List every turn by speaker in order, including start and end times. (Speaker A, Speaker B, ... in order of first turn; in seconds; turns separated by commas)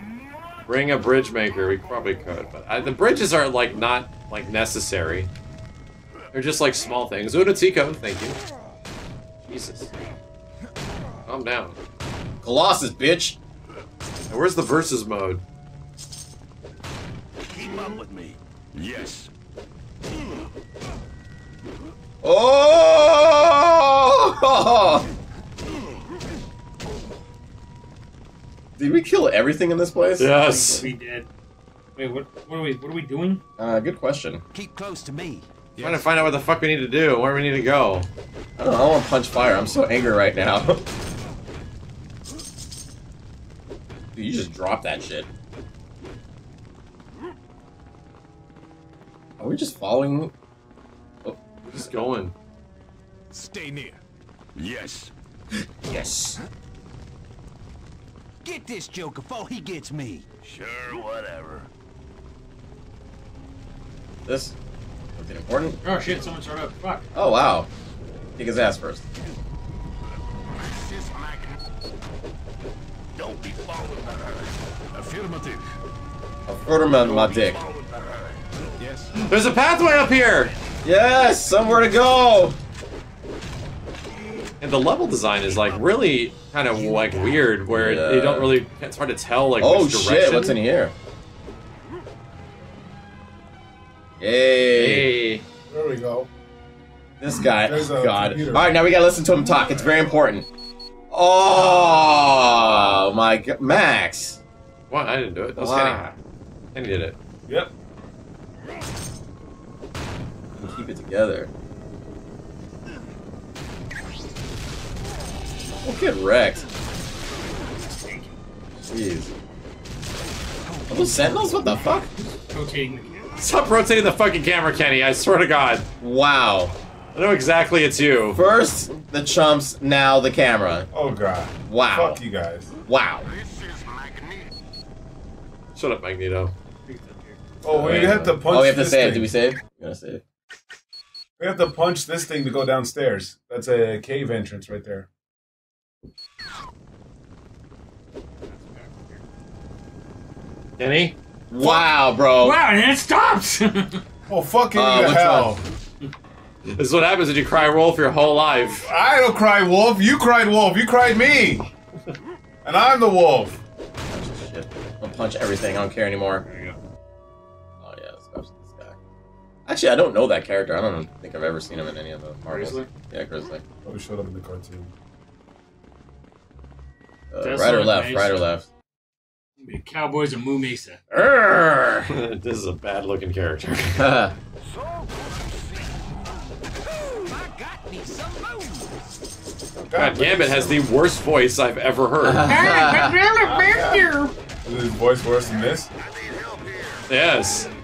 Speaker A: 0.7-5.3, Speaker A: 6.3-8.4, Speaker A: 9.5-9.9, Speaker A: 11.2-11.8, Speaker B: 12.4-13.4, Speaker A: 14.3-15.4, Speaker C: 17.5-18.4, Speaker D: 18.7-19.3, Speaker B: 22.2-25.1, Speaker B: 28.8-30.6, Speaker A: 30.2-30.8, Speaker E: 30.3-31.3, Speaker E: 31.9-33.4, Speaker B: 33.6-34.4, Speaker F: 34.5-35.5, Speaker D: 35.8-36.1, Speaker A: 35.8-38.1, Speaker B: 38.6-40.8, Speaker B: 44.1-45.3, Speaker B: 49.4-50.3, Speaker A: 51.7-52.3, Speaker D: 53.3-54.0, Speaker D: 54.5-55.1, Speaker B: 55.9-56.4, Speaker F: 58.4-60.2, Speaker C: 60.4-61.7, Speaker B: 64.2-64.5, Speaker B: 65.2-65.8, Speaker E: 65.8-67.1, Speaker B: 67.1-67.7, Speaker B: 68.4-69.0, Speaker C: 73.1-74.5, Speaker D: 74.9-75.7, Speaker B: 76.5-77.6, Speaker C: 77.0-78.6, Speaker D: 78.8-79.1, Speaker A: 79.2-80.5, Speaker B: 80.8-82.6, Speaker A: 84.6-90.6, Speaker C: 85.5-85.8, Speaker E: 86.8-87.3, Speaker B: 87.7-88.6, Speaker B: 89.6-90.9, Speaker B: 94.2-95.2, Speaker A: 94.7-95.4, Speaker G: 95.7-96.3, Speaker B: 97.2-100.5, Speaker G: 97.5-98.8, Speaker B: 101.1-104.4, Speaker A: 104.9-106.2, Speaker B: 105.5-106.0, Speaker A: 106.7-107.2, Speaker G: 107.5-107.7, Speaker B: 110.6-111.5, Speaker B: 115.8-116.7, Speaker E: 117.7-118.4, Speaker B: 118.9-119.3, Speaker F: 120.7-121.7, Speaker B: 120.9-122.1, Speaker E: 121.7-123.4, Speaker A: 123.4-125.9, Speaker B: 126.0-126.8, Speaker A: 127.1-128.4, Speaker B: 128.3-130.9, Speaker G: 130.9-132.7, Speaker B: 131.7-132.2, Speaker B: 132.9-133.3, Speaker F: 133.7-134.4, Speaker A: 135.8-136.5, Speaker E: 136.8-137.4, Speaker G: 137.6-139.3, Speaker B: 137.7-140.2, Speaker A: 137.8-138.4, Speaker G: 141.4-145.1, Speaker E: 148.5-149.2, Speaker A: 150.8-151.2, Speaker B: 151.5-152.6, Speaker E: 151.6-154.0, Speaker G: 154.3-155.6, Speaker B: 154.7-155.6, Speaker A: 156.7-158.9, Speaker G: 158.8-161.7, Speaker G: 162.6-163.6, Speaker B: 164.1-166.4, Speaker B: 167.8-169.0, Speaker B: 169.7-173.6, Speaker E: 172.5-172.9, Speaker G: 173.8-174.9, Speaker B: 177.3-178.7, Speaker E: 177.4-178.4, Speaker E: 179.6-181.0, Speaker B: 181.1-182.1, Speaker A: 182.1-184.1, Speaker B: 184.0-184.3, Speaker F: 186.9-189.0, Speaker G: 189.8-190.8, Speaker A: 189.9-192.6, Speaker B: 192.2-193.2, Speaker E: 192.4-194.3, Speaker G: 193.4-194.1, Speaker G: 194.6-195.9, Speaker C: 195.9-197.1, Speaker A: 197.1-197.7